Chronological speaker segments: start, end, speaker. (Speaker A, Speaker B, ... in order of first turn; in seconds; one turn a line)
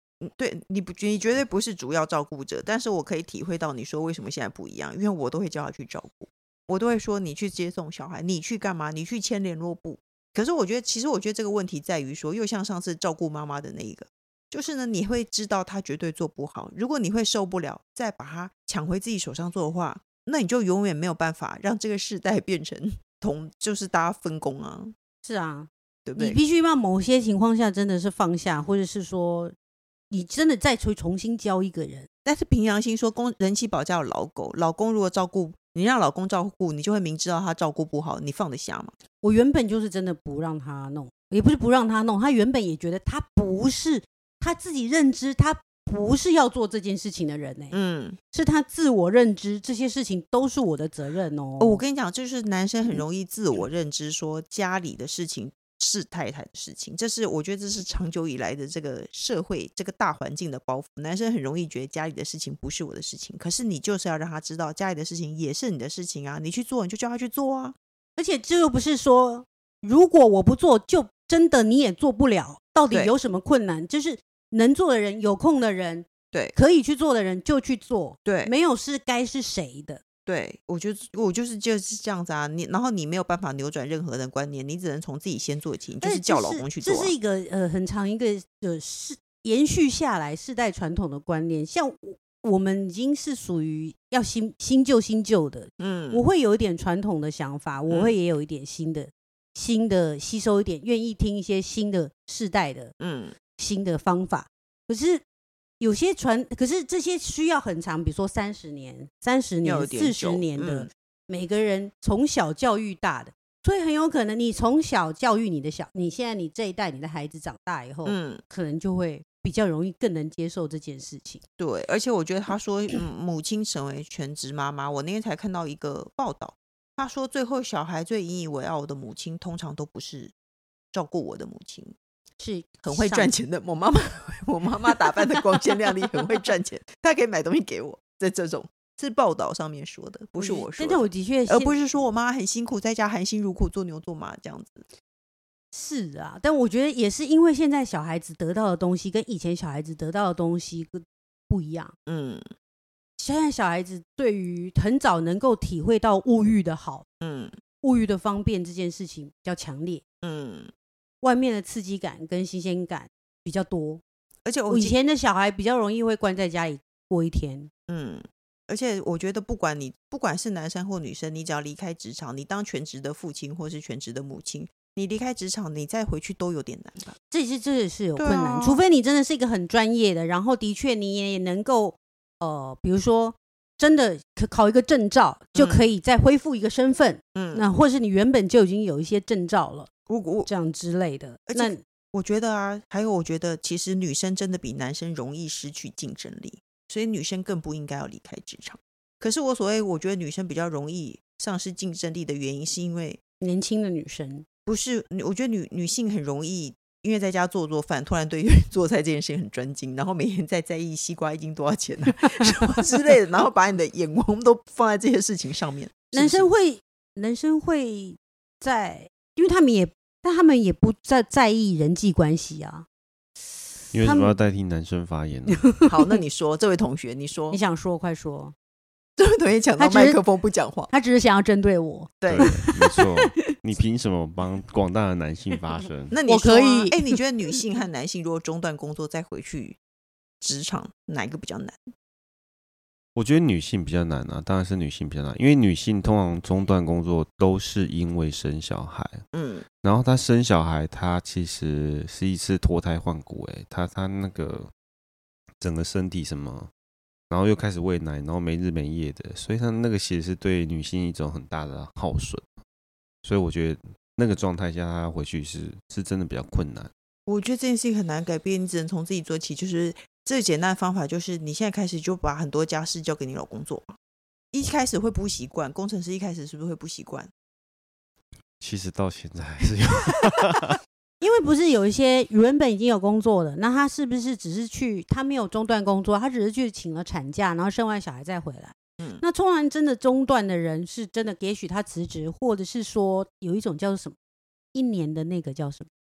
Speaker A: 0.2-24.9
Speaker B: 25.2-29.5
Speaker A: 26.0-26.4
Speaker B: 30.1-32.1
Speaker A: 32.2-38.9
Speaker B: 39.2-47.7
Speaker A: 47.7-48.2
Speaker B: 48.3-51.8
Speaker A: 51.6-67.8
Speaker B: 68.2-80.0
Speaker A: 78.2-78.5
Speaker A: 80.2-87.1
Speaker B: 86.0-102.9
Speaker A: 95.8-96.2
Speaker A: 97.9-98.1
Speaker A: 103.0-103.3
Speaker B: 103.5-105.2
Speaker B: 105.8-121.4
Speaker A: 109.6-110.9
Speaker A: 118.0-118.4
Speaker A: 121.6-130.3
Speaker A: 130.9-131.9
Speaker B: 132.4-133.3
Speaker A: 132.8-144.8
Speaker B: 140.4-141.8
Speaker B: 145.7-151.9
Speaker A: 152.1-152.5
Speaker B: 153.2-157.1
Speaker A: 157.2-157.6
Speaker B: 157.8-160.0
Speaker A: 160.2-160.7
Speaker B: 161.2-164.0
Speaker A: 164.4-165.0
Speaker B: 164.7-167.7
Speaker A: 167.9-177.2
Speaker B: 177.3-189.9
Speaker A: 178.2-178.8
Speaker A: 185.5-185.9
Speaker A: 187.3-187.7
Speaker A: 190.1-190.5
Speaker B: 190.4-191.8
Speaker A: 191.5-203.2
Speaker B: 203.4-204.4
Speaker A: 204.7-216.5
Speaker B: 216.1-222.8
Speaker C: 223.9-225.7
Speaker B: 224.0-224.3
Speaker A: 225.9-227.6
Speaker B: 227.5-228.5
Speaker A: 229.2-230.9
Speaker B: 229.8-230.2
Speaker B: 230.9-233.5
Speaker A: 232.2-232.6
Speaker C: 232.2-236.1
Speaker A: 236.1-239.8
Speaker B: 236.3-237.2
Speaker A: 240.4-241.8
Speaker C: 243.1-249.2
Speaker A: 249.3-249.7
Speaker C: 249.8-254.7
Speaker C: 255.6-256.7
Speaker C: 257.3-262.4
Speaker C: 263.2-266.9
Speaker A: 267.2-273.9
Speaker A: 274.5-277.3
Speaker C: 278.6-280.8
Speaker B: 281.2-294.2
Speaker B: 294.7-295.9